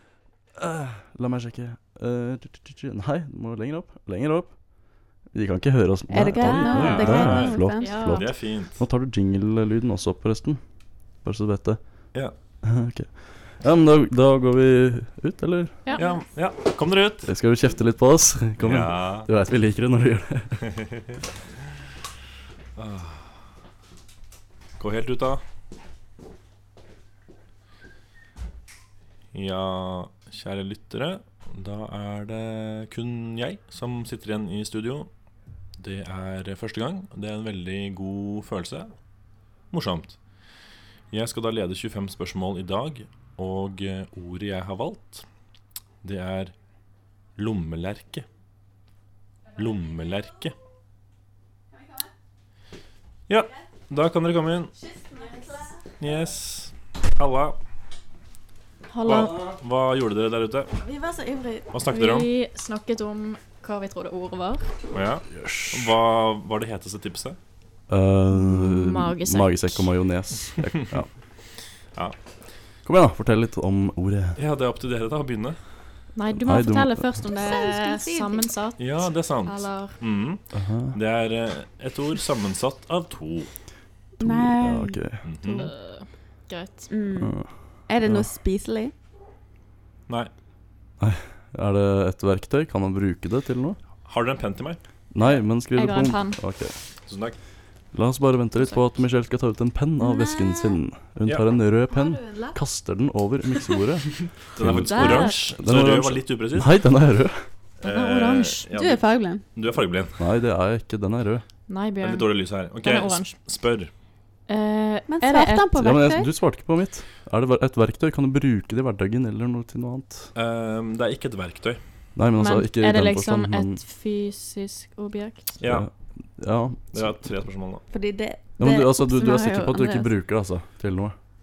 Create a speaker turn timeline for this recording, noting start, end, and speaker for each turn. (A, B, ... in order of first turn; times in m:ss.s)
0:00.6-0:15.9 A
0:06.1-0:08.0 B
0:06.5-0:08.3 C
0:06.6-0:08.8 D
0:16.0-0:17.3 D
0:17.2-0:20.7 A
0:18.6-0:19.3 D
0:22.8-0:23.3 D
0:24.8-0:25.4 D
0:29.3-0:35.1 D
0:35.8-0:38.9 D
0:39.7-0:40.2 D
0:41.1-0:45.3 D
0:46.0-0:46.6 D
0:47.4-0:48.3 D
0:49.6-0:50.6 D
0:53.3-0:54.7 D
0:54.9-0:56.0 B
0:56.0-0:57.6 D
0:58.9-0:59.4 C
0:59.0-1:00.7 D
1:00.8-1:01.7 B
1:01.7-1:02.3 D
1:01.9-1:04.6 C
1:04.9-1:07.4 D
1:05.3-1:05.9 A
1:07.9-1:11.1 A
1:08.4-1:09.9 C
1:12.8-1:14.4 A
1:14.4-1:15.6 D
1:16.1-1:20.0 C
1:16.4-1:17.2 A
1:17.3-1:18.5 B
1:18.8-1:23.5 D
1:20.5-1:21.0 A
1:24.2-1:25.0 B
1:24.2-1:25.3 A
1:25.2-1:25.7 D
1:25.4-1:26.9 C
1:26.9-1:28.9 B
1:27.2-1:28.2 A
1:31.0-1:33.8 A
1:34.0-1:34.8 D
1:35.1-1:36.8 A
1:35.7-1:36.4 C
1:37.1-1:37.4 D
1:37.9-1:47.5 A
1:41.9-1:42.6 B
1:44.6-1:46.8 D
1:44.9-1:45.5 C
1:47.8-1:48.7 C
1:47.8-1:49.0 D
1:48.7-1:49.4 B
1:49.5-1:50.2 D
1:50.2-1:51.4 A
1:51.7-1:53.4 C
1:52.0-1:53.9 D
1:54.5-1:55.8 C
1:55.1-1:56.3 B
1:55.8-2:00.3 A
2:00.4-2:01.8 D
2:02.2-2:03.8 A
2:02.4-2:05.5 C
2:05.6-2:05.9 D
2:05.6-2:07.2 A
2:06.9-2:07.8 D
2:07.9-2:10.1 B
2:08.6-2:11.2 A